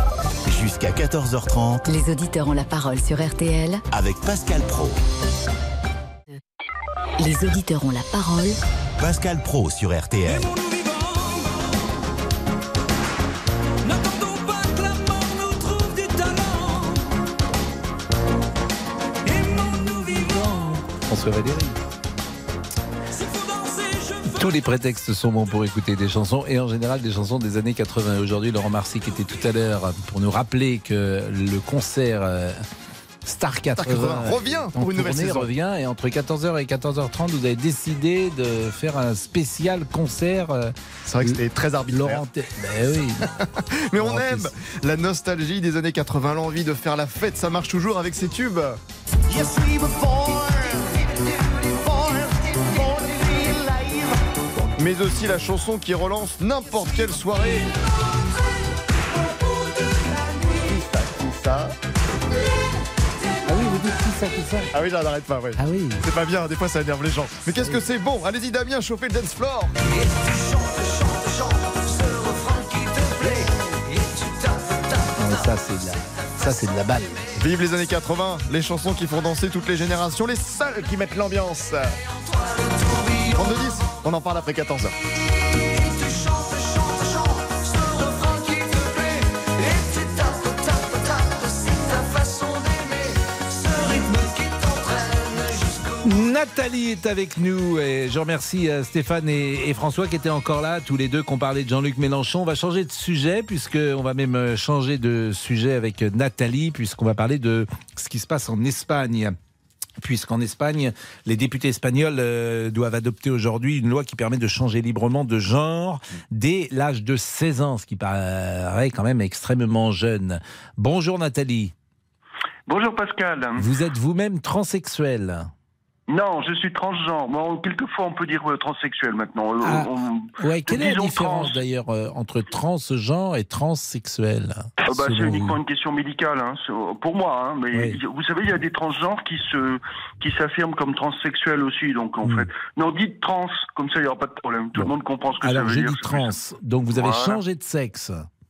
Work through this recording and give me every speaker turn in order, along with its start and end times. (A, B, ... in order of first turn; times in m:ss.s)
0:00.4-0:01.8 A
0:01.8-0:03.8 B
0:03.9-0:05.0 A
0:07.2-0:08.6 B
0:09.0-0:10.5 A
0:19.4-0:21.8 C
0:24.3-0:32.6 C
0:33.2-0:43.2 C
0:33.8-0:35.5 D
0:41.0-0:42.2 D
0:43.4-0:48.8 D
0:44.0-0:44.5 C
0:54.8-0:57.7 D
1:00.6-1:01.7 D
1:03.5-1:04.7 C
1:04.7-1:09.7 D
1:05.6-1:06.0 C
1:07.5-1:07.8 C
1:15.1-1:17.2 C
1:17.4-1:22.0 D
1:23.2-1:24.9 D
1:36.0-1:49.4 C
1:50.0-2:01.7 C
2:02.7-2:03.6 E
2:03.6-2:05.5 C
2:06.1-2:11.6 E
2:09.6-2:15.6 C
2:14.8-2:26.3 E
2:17.7-2:18.0 C
2:22.2-2:22.5 C
2:24.8-2:28.2 C
2:26.9-2:27.4 E